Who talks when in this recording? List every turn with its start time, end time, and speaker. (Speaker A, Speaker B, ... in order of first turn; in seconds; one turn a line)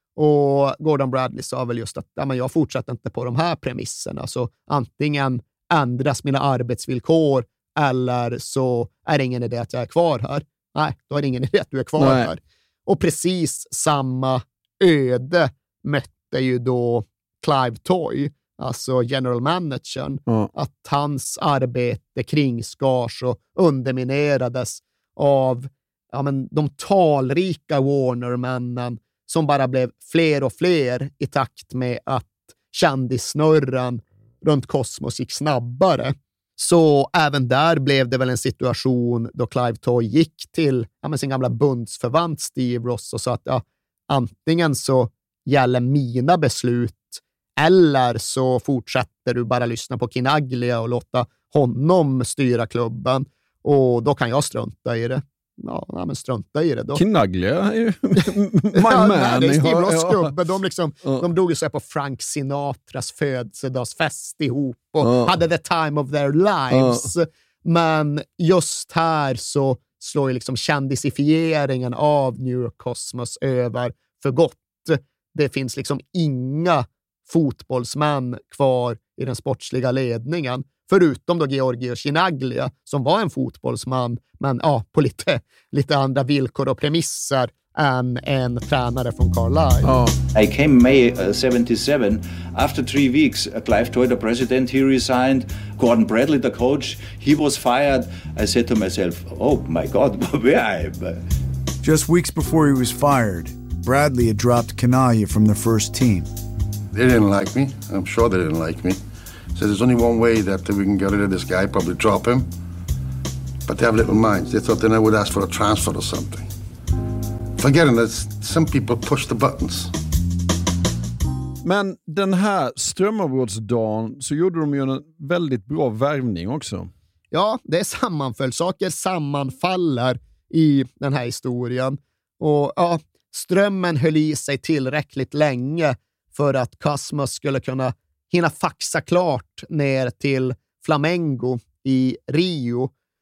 Speaker A: 0.2-57.0
Speaker B: 12.0-12.3
Speaker B: 57.0-60.4
Speaker A: 58.7-89.9
Speaker B: 65.0-65.4
Speaker B: 66.7-67.1
Speaker B: 89.8-90.2
Speaker C: 90.3-101.2
Speaker D: 101.8-106.3
Speaker E: 106.9-109.0
Speaker E: 109.5-112.5
Speaker E: 113.7-116.5
Speaker E: 117.6-119.9
Speaker B: 121.6-126.9
Speaker A: 127.3-142.9